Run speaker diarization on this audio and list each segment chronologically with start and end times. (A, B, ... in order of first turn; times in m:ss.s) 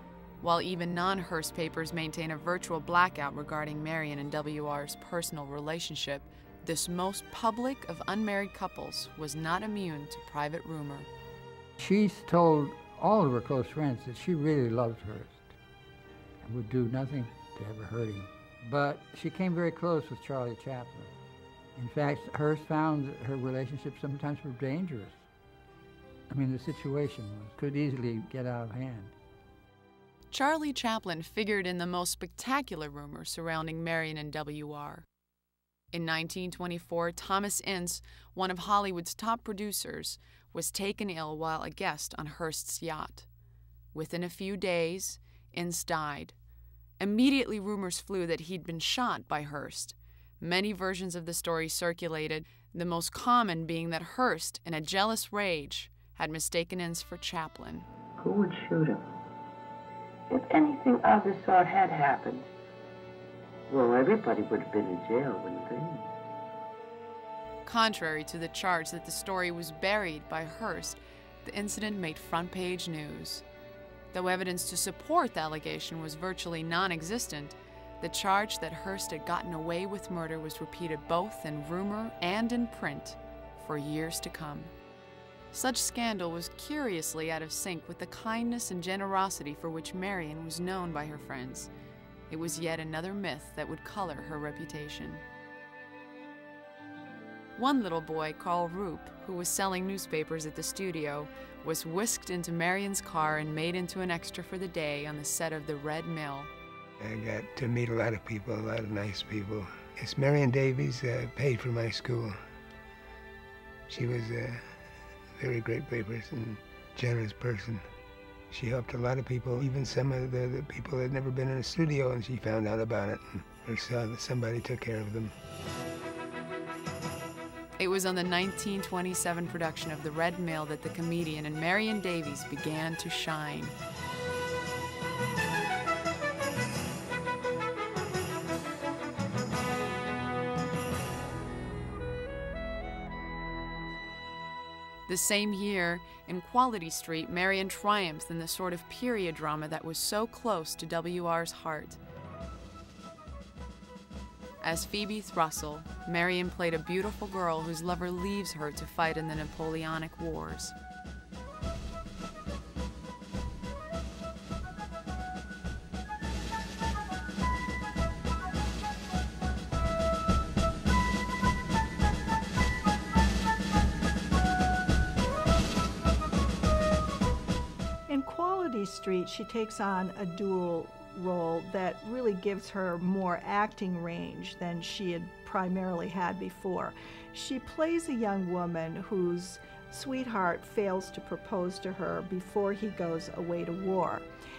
0:00.4-0:11.1 A
0:11.8-0:15.5 B
0:16.4-0:21.1 B
0:21.8-0:25.2 B
0:26.3-0:29.1 B
0:30.3-0:35.0 A
0:35.9-0:43.3 A
0:43.9-0:46.3 A
0:47.0-0:57.9 A
0:58.2-0:59.0 C
1:00.3-1:02.5 C
1:03.7-1:06.1 C
1:07.6-1:13.4 A
1:14.1-1:24.7 A
1:25.5-1:31.7 A
1:32.3-1:35.2 A
1:37.6-1:46.5 A
1:47.0-1:52.4 D
1:53.9-1:54.8 D
1:55.4-1:57.9 D
1:58.5-2:05.3 D
2:07.8-2:13.7 A
2:25.1-2:32.0 A
2:34.6-2:40.7 A
2:58.1-3:14.3 E